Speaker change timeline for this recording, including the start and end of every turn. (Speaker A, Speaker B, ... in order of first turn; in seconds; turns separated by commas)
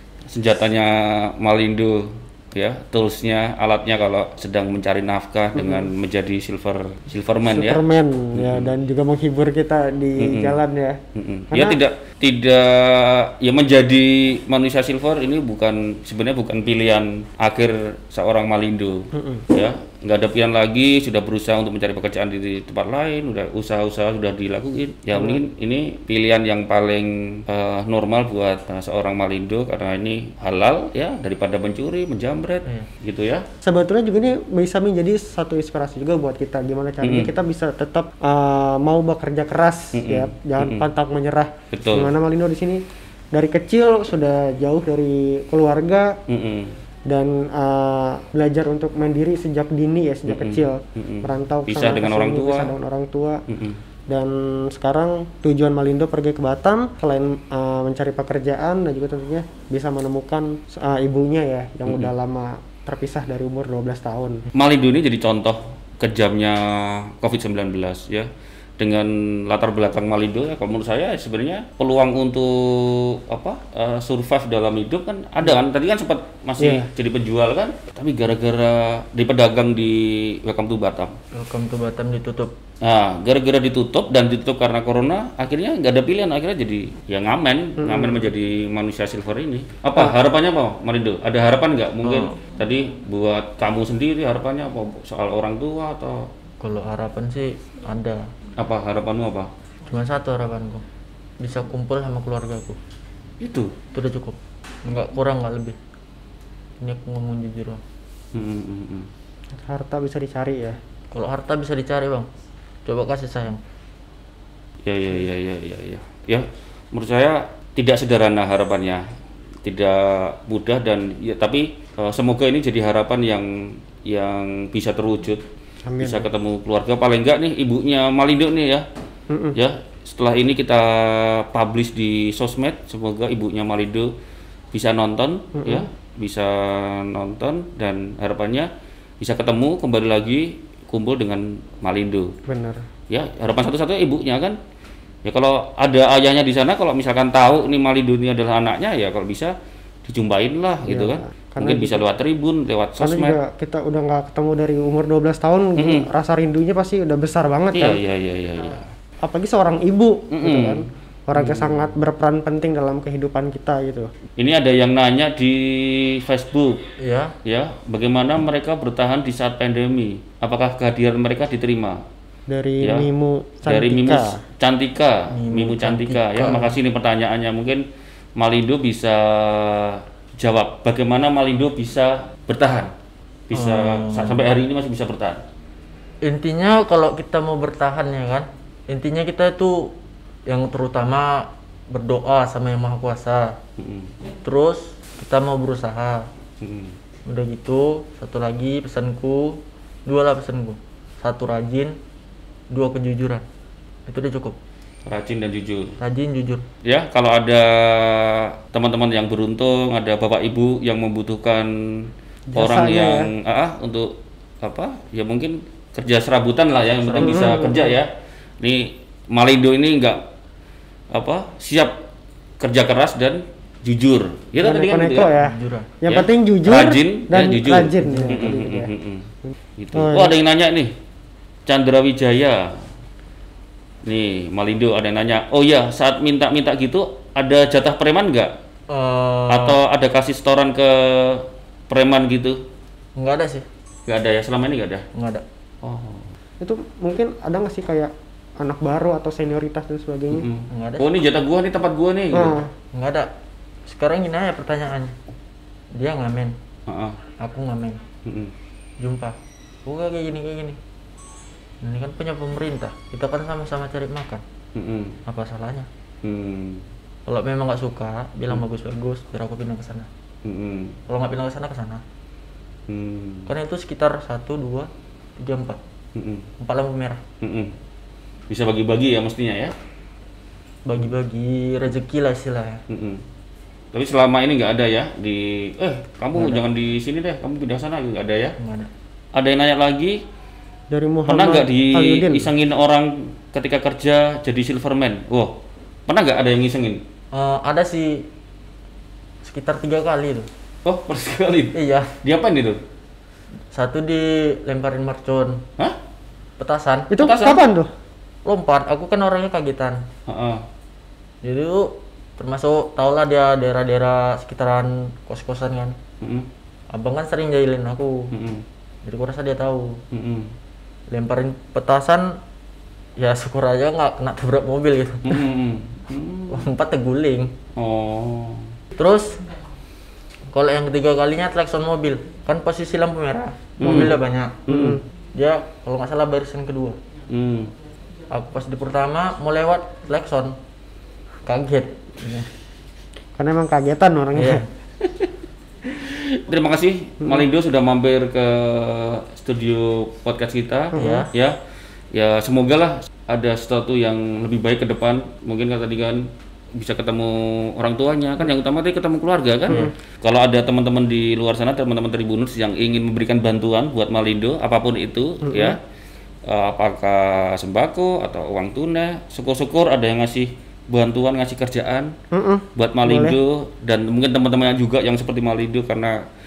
Speaker A: 0.3-8.7, Speaker B: 5.5-5.9, Speaker B: 7.5-11.0, Speaker A: 10.2-10.6, Speaker A: 11.2-33.5, Speaker B: 11.5-11.8, Speaker B: 19.1-19.4, Speaker B: 25.1-25.4, Speaker B: 33.6-46.2, Speaker A: 37.0-37.3, Speaker A: 39.9-40.9, Speaker A: 41.7-42.1, Speaker A: 46.3-46.8, Speaker B: 47.1-53.4, Speaker A: 50.3-52.8, Speaker A: 53.5-53.8, Speaker B: 54.1-64.5, Speaker A: 61.9-62.1, Speaker A: 64.5-81.2, Speaker B: 76.6-76.9, Speaker C: 81.3-82.5, Speaker A: 82.8-96.3, Speaker B: 87.8-88.2, Speaker C: 92.0-92.4, Speaker C: 96.6-98.3, Speaker A: 98.6-99.5, Speaker C: 99.9-100.8, Speaker C: 101.4-102.8, Speaker A: 103.4-103.7, Speaker C: 103.9-105.8, Speaker C: 106.8-107.8, Speaker A: 108.3-109.1, Speaker B: 109.5-110.8, Speaker C: 111.1-112.3, Speaker C: 112.8-113.6, Speaker A: 114.9-119.0, Speaker A: 119.6-125.4, Speaker B: 125.8-126.3, Speaker A: 126.0-128.8, Speaker B: 129.3-129.6, Speaker A: 129.6-134.1, Speaker A: 134.7-138.7, Speaker A: 139.2-142.3, Speaker B: 142.5-142.8, Speaker A: 143.1-144.6, Speaker A: 145.2-149.5, Speaker A: 150.1-153.4, Speaker B: 150.8-152.0, Speaker B: 153.0-158.0, Speaker A: 155.8-156.1, Speaker A: 157.7-158.9, Speaker B: 159.2-164.1, Speaker A: 160.3-161.9, Speaker A: 164.4-166.8, Speaker C: 167.0-167.3, Speaker A: 167.4-172.0, Speaker B: 172.5-174.4, Speaker A: 172.8-173.1, Speaker A: 173.7-177.8, Speaker C: 175.3-176.8, Speaker A: 178.4-182.9, Speaker A: 183.5-185.4, Speaker C: 183.5-184.5, Speaker C: 186.2-189.9, Speaker C: 190.5-193.6, Speaker A: 193.8-194.1, Speaker C: 194.3-196.3, Speaker A: 196.6-197.0, Speaker C: 197.3-202.0, Speaker C: 202.7-203.4, Speaker C: 204.1-204.6, Speaker A: 205.1-206.0, Speaker C: 206.0-206.7, Speaker A: 206.8-220.2, Speaker B: 212.5-213.3, Speaker C: 216.9-217.6, Speaker B: 217.2-217.9, Speaker A: 221.1-222.0, Speaker A: 222.6-225.3, Speaker B: 224.6-228.9, Speaker C: 225.3-225.9, Speaker A: 226.1-230.9, Speaker C: 228.0-228.6, Speaker B: 229.9-230.4, Speaker A: 231.7-232.8, Speaker A: 234.1-238.5, Speaker C: 238.9-239.8, Speaker A: 239.5-242.6, Speaker C: 243.2-243.7, Speaker A: 244.1-245.0, Speaker C: 245.1-245.4, Speaker A: 245.8-246.3, Speaker B: 246.6-250.5, Speaker A: 250.3-252.6, Speaker C: 250.7-251.2, Speaker B: 252.3-252.7, Speaker C: 252.9-253.3, Speaker C: 253.9-255.2, Speaker C: 255.9-256.6, Speaker A: 256.9-257.2, Speaker C: 257.4-258.0, Speaker A: 258.2-258.5, Speaker C: 259.0-260.8, Speaker C: 261.8-264.4, Speaker A: 264.8-265.2, Speaker C: 265.3-265.9, Speaker A: 266.2-266.8, Speaker C: 267.3-270.1, Speaker A: 270.4-271.0, Speaker C: 271.1-272.0, Speaker A: 272.9-273.5, Speaker C: 273.5-275.8, Speaker A: 276.1-276.4, Speaker C: 276.6-277.2, Speaker A: 277.4-277.8, Speaker A: 278.5-279.7, Speaker C: 280.9-282.8, Speaker A: 282.9-283.2, Speaker A: 283.9-288.6, Speaker C: 286.4-286.6, Speaker C: 288.6-288.9, Speaker A: 289.3-290.2, Speaker B: 290.9-292.5, Speaker A: 291.3-297.0, Speaker C: 297.3-298.3, Speaker C: 299.4-300.5, Speaker A: 300.9-302.8, Speaker C: 301.7-302.1, Speaker C: 303.7-305.6, Speaker C: 306.6-307.1, Speaker B: 307.1-307.9, Speaker A: 307.2-307.6, Speaker C: 308.4-310.1, Speaker A: 310.3-310.6, Speaker C: 311.4-316.0, Speaker A: 316.2-316.5, Speaker C: 316.9-318.3, Speaker A: 318.3-318.6, Speaker C: 319.1-320.0, Speaker A: 320.1-320.5, Speaker C: 321.1-322.4, Speaker C: 323.2-325.4, Speaker A: 325.2-326.7, Speaker C: 326.5-327.6, Speaker A: 327.8-328.7, Speaker C: 329.0-329.4, Speaker C: 330.5-337.0, Speaker A: 333.8-335.0, Speaker A: 337.3-337.7, Speaker C: 338.3-340.6, Speaker C: 341.5-342.5, Speaker B: 343.4-344.6, Speaker C: 344.4-344.7, Speaker A: 345.9-351.6, Speaker C: 350.9-351.3, Speaker B: 350.9-351.2, Speaker A: 352.1-365.8, Speaker B: 365.4-365.8, Speaker A: 366.5-372.1, Speaker B: 372.3-373.4, Speaker A: 372.8-376.2